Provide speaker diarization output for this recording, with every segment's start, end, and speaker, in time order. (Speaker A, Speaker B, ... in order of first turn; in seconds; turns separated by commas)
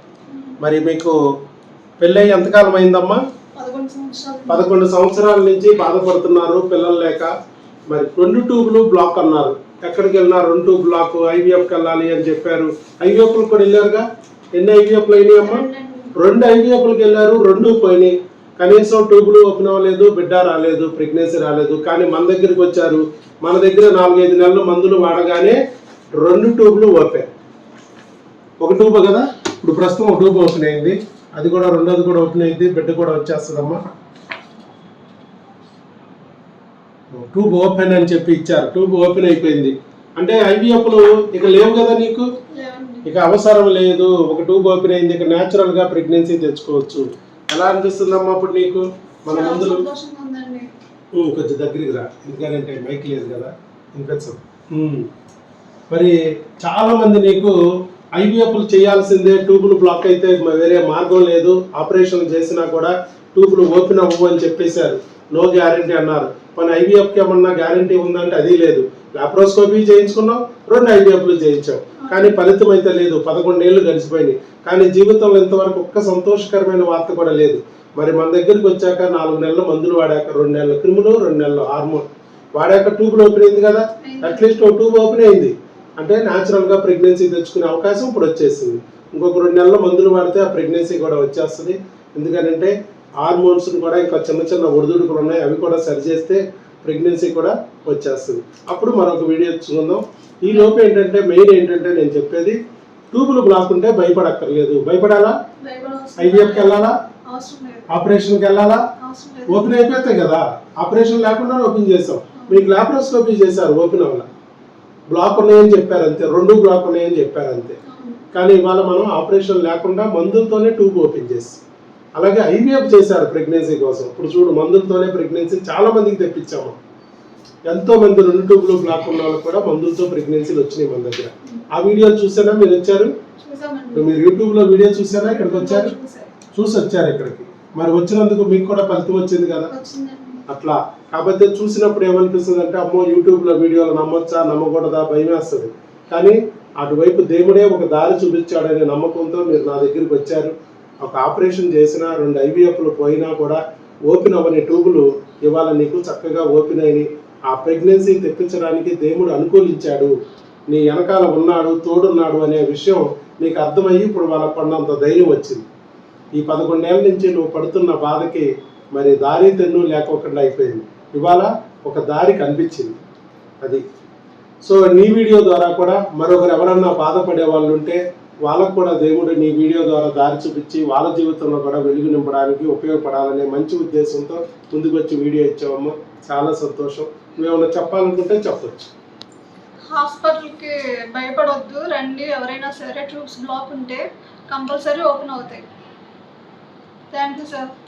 Speaker A: 0.6-1.1, Speaker A: 2.0-3.2, Speaker B: 3.5-4.7, Speaker A: 4.5-7.3, Speaker A: 7.9-25.6, Speaker B: 15.4-16.1, Speaker A: 26.2-27.3, Speaker A: 28.6-33.8, Speaker A: 37.1-42.3, Speaker B: 42.5-43.1, Speaker A: 43.0-49.9, Speaker B: 49.3-50.7, Speaker A: 51.1-55.1, Speaker A: 55.9-57.5, Speaker A: 58.2-102.6, Speaker B: 72.0-72.4, Speaker B: 84.0-84.5, Speaker B: 100.5-100.7, Speaker A: 103.1-105.4, Speaker B: 105.6-107.9, Speaker A: 106.2-107.0, Speaker A: 107.9-108.9, Speaker B: 109.0-109.7, Speaker A: 109.5-114.3, Speaker B: 112.4-112.7, Speaker A: 115.1-117.8, Speaker B: 117.9-118.2, Speaker A: 118.3-121.6, Speaker A: 122.2-126.8, Speaker A: 127.7-133.1, Speaker B: 133.4-134.2, Speaker A: 133.9-135.9, Speaker B: 135.2-136.3, Speaker A: 136.6-139.7, Speaker B: 139.7-140.4, Speaker A: 140.5-160.1, Speaker A: 160.7-165.6, Speaker A: 166.3-173.0, Speaker A: 174.6-188.9, Speaker B: 189.8-195.7, Speaker B: 197.1-197.7